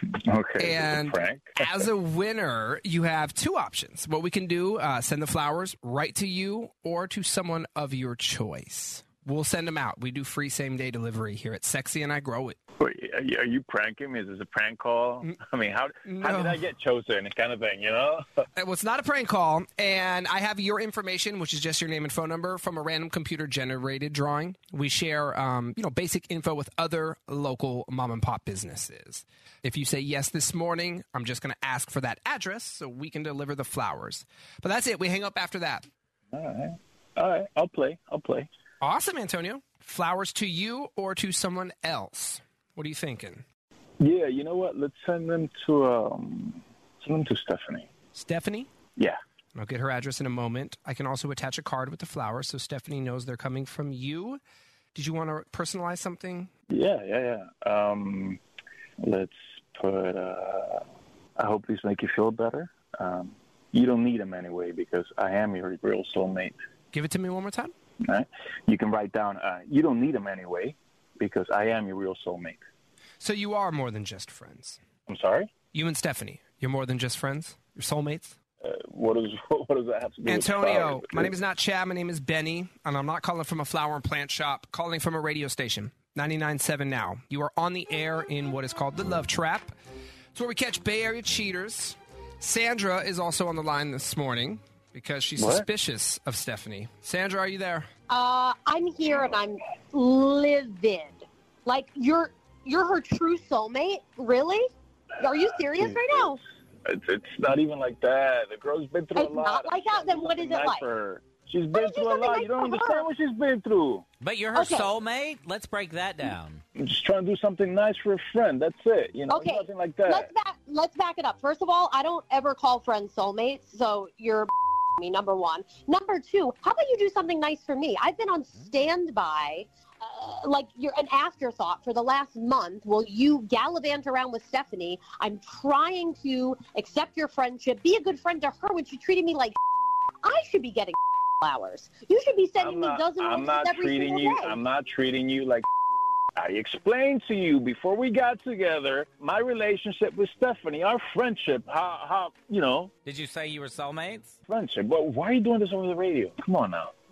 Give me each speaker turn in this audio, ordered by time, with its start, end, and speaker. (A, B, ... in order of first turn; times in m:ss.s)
0:00.2-0:01.8 A
0:00.6-0:12.6 B
0:12.8-0:18.2 A
0:16.0-0:16.6 B
0:18.5-0:35.9 B
0:36.3-0:38.5 A
0:38.8-0:43.4 B
0:44.0-0:47.9 A
0:48.1-0:48.7 B
0:49.5-0:54.4 B
0:54.9-0:56.5 B
0:56.7-0:58.4 A
0:59.0-1:00.8 A
1:01.4-1:06.6 A
1:06.9-1:07.7 B
1:08.0-1:12.6 A
1:13.2-1:14.8 B
1:15.1-1:15.5 A
1:15.7-1:18.4 B
1:18.6-1:21.3 A
1:20.2-1:29.7 B
1:30.3-1:37.9 B
1:35.4-1:35.6 A
1:38.1-1:44.7 C
1:45.2-1:46.4 C
1:45.7-1:46.3 A
1:46.8-1:54.0 A
1:49.2-1:50.8 C
1:51.7-1:53.0 C
1:54.2-1:56.6 D
1:54.5-1:54.9 C
1:56.8-2:00.3 A
1:59.3-2:19.6 C
2:20.2-2:24.6 C
2:22.6-2:25.6 A
2:26.4-2:32.9 A
2:33.0-2:34.4 D
2:34.5-2:36.9 A